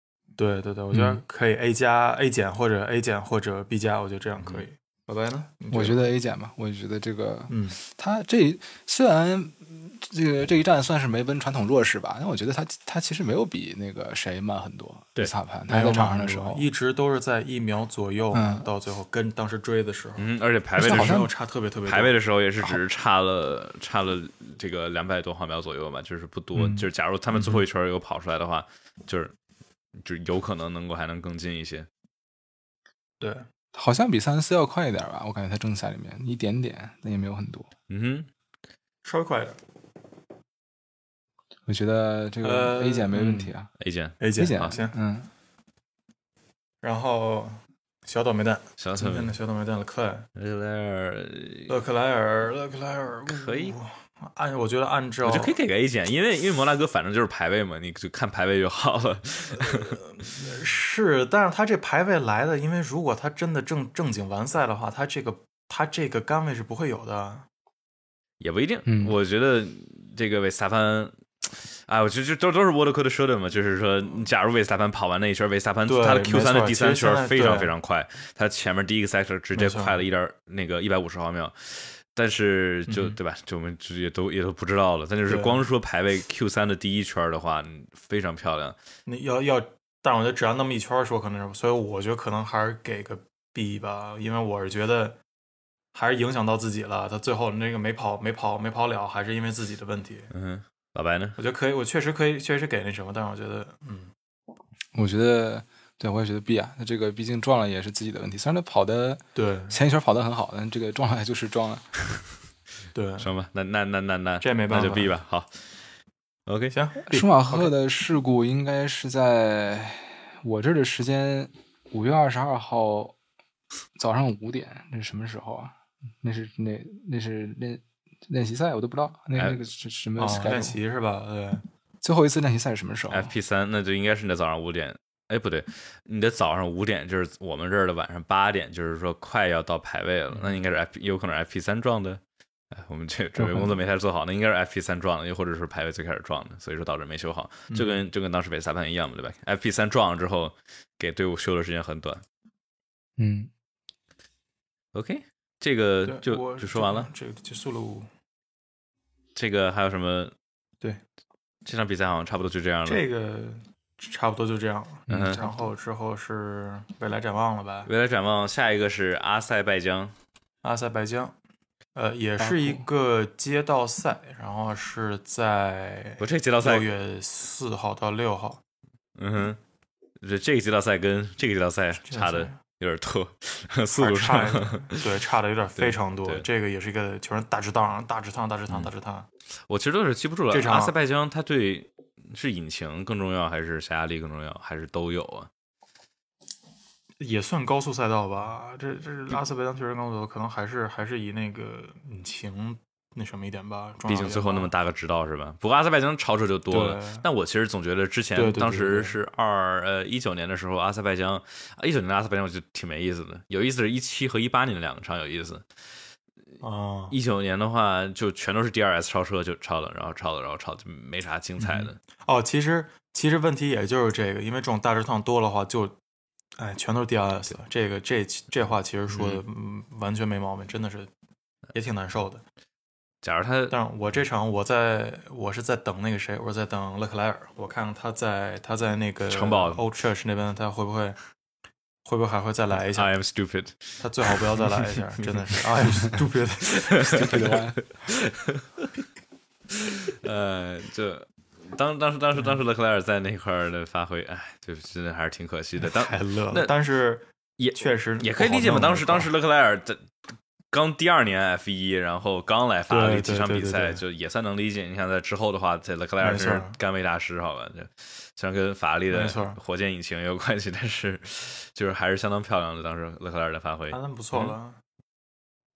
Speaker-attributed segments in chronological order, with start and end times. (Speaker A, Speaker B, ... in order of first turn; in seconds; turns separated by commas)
Speaker A: 0.4-6.1, Speaker B: 0.9-1.2, Speaker B: 5.7-16.6, Speaker A: 7.5-7.8, Speaker A: 15.7-22.1, Speaker B: 18.3-18.7, Speaker C: 20.2-21.2, Speaker B: 20.8-21.3, Speaker C: 21.9-29.3, Speaker A: 26.5-27.6, Speaker C: 30.0-31.9, Speaker A: 33.2-33.5, Speaker B: 33.7-37.7, Speaker C: 37.9-38.3, Speaker A: 39.0-39.6, Speaker B: 41.7-43.7, Speaker A: 42.4-43.5, Speaker C: 43.8-44.8, Speaker A: 44.2-45.0, Speaker B: 44.4-45.3, Speaker A: 46.8-50.3, Speaker C: 48.8-49.3, Speaker C: 50.4-51.7, Speaker A: 51.7-55.5, Speaker C: 53.3-53.8, Speaker C: 55.2-60.0, Speaker A: 59.5-67.5, Speaker C: 68.4-88.8, Speaker B: 68.9-69.1, Speaker A: 75.8-77.7, Speaker A: 79.5-80.0, Speaker A: 82.9-83.2, Speaker A: 85.3-85.6, Speaker A: 89.0-95.2, Speaker A: 95.9-100.3, Speaker C: 100.3-101.4, Speaker A: 101.4-104.1, Speaker B: 104.9-111.9, Speaker A: 109.3-109.8, Speaker A: 112.9-113.3, Speaker C: 113.2-115.6, Speaker A: 114.4-115.1, Speaker C: 116.5-116.8, Speaker A: 116.7-117.7, Speaker B: 117.1-123.2, Speaker B: 124.0-130.8, Speaker C: 129.3-129.6, Speaker A: 130.2-131.6, Speaker B: 132.0-133.3, Speaker C: 133.1-142.2, Speaker A: 140.3-140.6, Speaker C: 142.7-152.2, Speaker B: 143.4-143.7, Speaker A: 147.7-148.0, Speaker B: 153.2-153.5, Speaker C: 154.9-157.1, Speaker A: 156.1-158.1, Speaker C: 159.3-160.3, Speaker C: 161.6-163.0, Speaker A: 162.8-167.9, Speaker B: 165.1-165.7, Speaker C: 165.1-165.4, Speaker C: 167.8-170.1, Speaker A: 170.6-171.3, Speaker A: 171.9-178.6, Speaker B: 172.4-172.8, Speaker C: 176.2-176.9, Speaker C: 179.2-179.6, Speaker C: 180.2-185.1, Speaker A: 182.0-182.6, Speaker A: 183.9-189.3, Speaker C: 185.8-186.4, Speaker C: 189.7-195.5, Speaker A: 190.5-191.0, Speaker A: 197.2-204.7, Speaker C: 204.1-215.6, Speaker A: 206.7-207.2, Speaker A: 208.3-209.2, Speaker A: 216.6-217.2, Speaker C: 217.1-222.0, Speaker A: 221.6-226.0, Speaker A: 226.6-231.1, Speaker C: 229.1-229.4, Speaker A: 231.7-232.4, Speaker C: 233.2-233.8, Speaker A: 233.7-241.2, Speaker C: 239.3-239.8, Speaker A: 242.0-243.1, Speaker C: 242.9-244.7, Speaker A: 244.0-247.6, Speaker B: 247.0-248.0, Speaker C: 247.0-248.9, Speaker C: 249.7-256.7, Speaker A: 255.8-259.3, Speaker C: 257.6-260.1, Speaker C: 260.7-274.5, Speaker A: 262.9-264.0, Speaker A: 266.2-266.8, Speaker A: 269.1-269.6, Speaker A: 273.9-274.8